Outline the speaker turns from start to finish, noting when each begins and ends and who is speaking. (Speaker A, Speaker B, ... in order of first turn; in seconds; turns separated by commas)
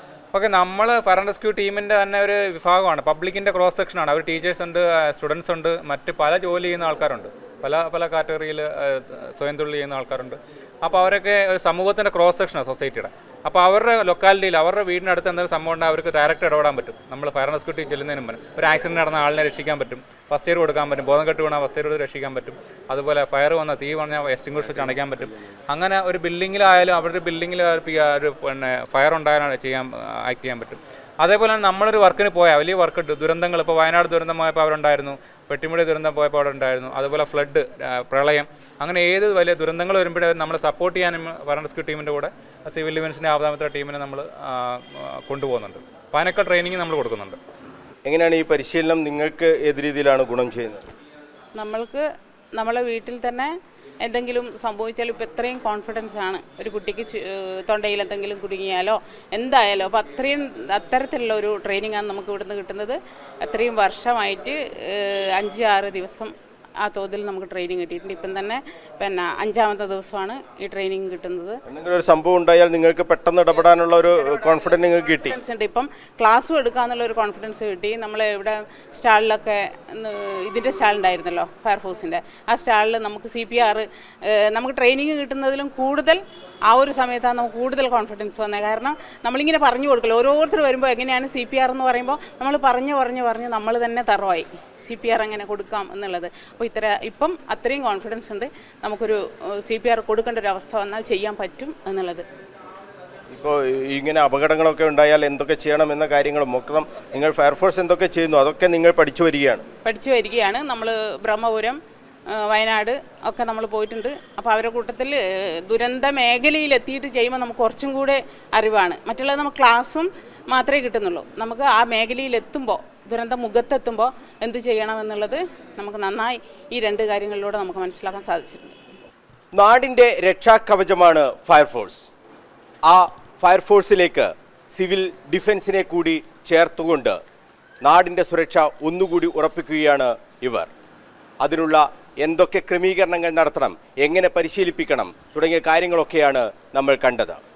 Speaker A: 0.3-47.4, Speaker B: 48.1-50.9, Speaker C: 51.6-52.0, Speaker C: 52.5-53.5, Speaker C: 54.0-71.6, Speaker B: 71.7-75.4, Speaker C: 73.7-102.2, Speaker B: 103.3-109.7, Speaker C: 109.8-111.8, Speaker C: 112.3-128.8, Speaker B: 129.6-132.1, Speaker B: 132.9-137.2, Speaker B: 137.8-140.7, Speaker B: 141.4-147.4